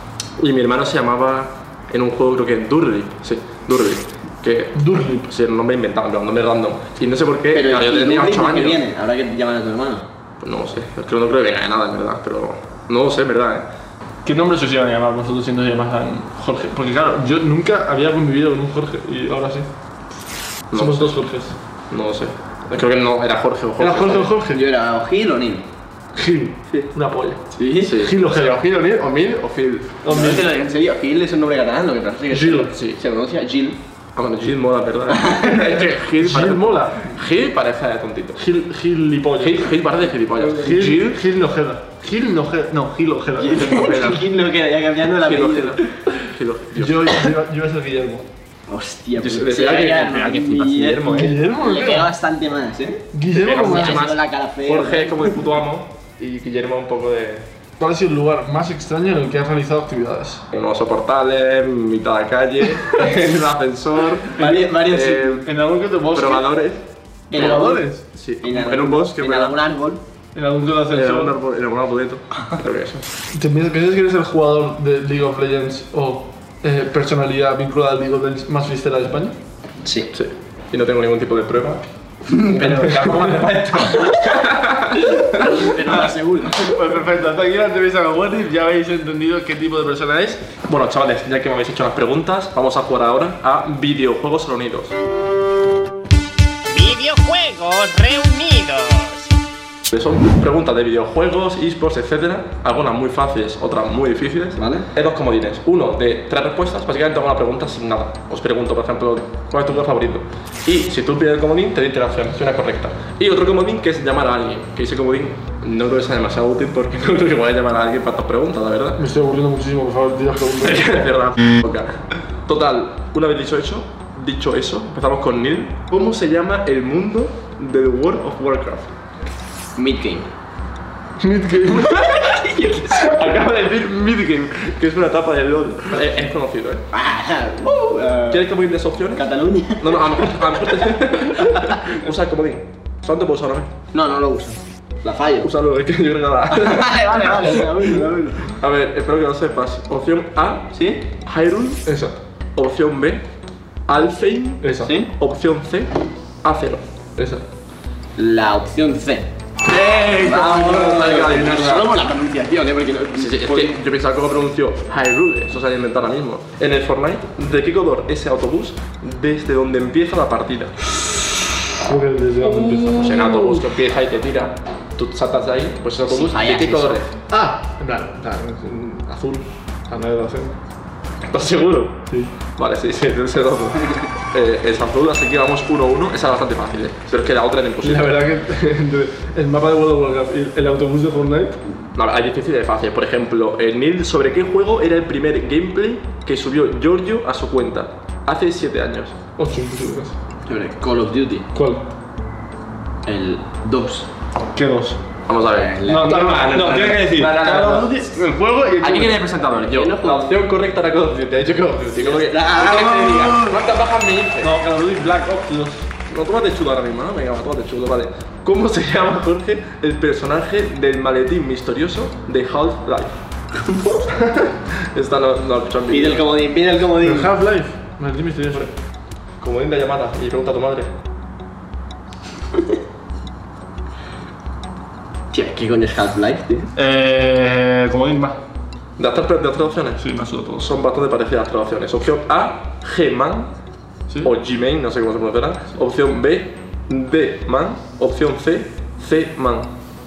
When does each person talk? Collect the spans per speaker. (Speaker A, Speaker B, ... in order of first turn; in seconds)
Speaker A: 0.4-8.8, 10.4-13.7, 20.7-21.2, 21.9-24.3, 27.8-30.0, 34.1-38.4, 39.4-41.0, 43.5-44.2, 45.2-47.1, 49.2-51.3, 53.3-57.5, 60.5-65.5, 66.1-69.6, 70.9-73.1, 80.1-81.8, 82.4-85.5, 90.7-94.9, 99.9-119.0, 120.6-128.9, 131.9-132.3, 132.9-136.8, 138.3-139.2, 139.8-143.7, 145.4-147.7, 148.4-151.9, 152.6-153.2, 153.9-156.8, 159.6-161.9, 163.2-170.8, 172.5-177.2, 181.3-188.2, 191.9-199.2, 205.3-214.5, 216.1-223.2, 224.2-226.3, 229.4-230.9, 239.0-240.1, 240.6-243.5, 244.2-249.7
Speaker B: 4.7-5.3, 14.2-19.7, 20.7-21.6, 23.8-24.6, 26.1-29.1, 30.0-30.5, 32.3-32.7, 36.1-37.2, 38.4-39.8, 40.5-44.2, 46.7-48.2, 51.1-52.1, 53.1-54.1, 57.8-60.4, 64.4-64.7, 65.4-66.5, 67.3-68.0, 70.3-71.3, 73.3-79.4, 82.8-83.4, 86.0-90.5, 119.0-121.0, 131.2-132.1, 134.0-134.2, 151.8-152.2, 154.6-154.9, 157.2-157.4, 171.8-173.6, 177.3-180.6, 182.1-182.3, 187.8-191.6, 199.4-200.2, 201.5-201.9, 204.5-205.0, 205.8-209.2, 214.4-215.8, 227.0-228.7, 236.7-238.4, 240.0-240.7
Speaker C: 7.5-10.1, 24.5-25.6, 27.5-27.9, 30.1-33.8, 35.1-35.6, 40.4-40.9, 43.4-45.8, 48.7-55.4, 64.3-65.4, 67.3-67.8, 68.4-70.0, 79.8-80.1, 82.3-82.9, 85.3-86.7, 104.5-104.9, 129.8-130.3, 132.0-133.0, 136.9-138.5, 139.1-140.7, 143.9-145.5, 146.5-148.5, 150.7-151.0, 154.8-155.1, 158.2-159.3, 160.2-163.8, 176.1-177.0, 200.4-201.5, 203.0-204.1, 205.5-207.9, 209.5-210.3, 211.9-213.5, 225.9-227.3, 235.3-236.7
Speaker D: 96.7-99.3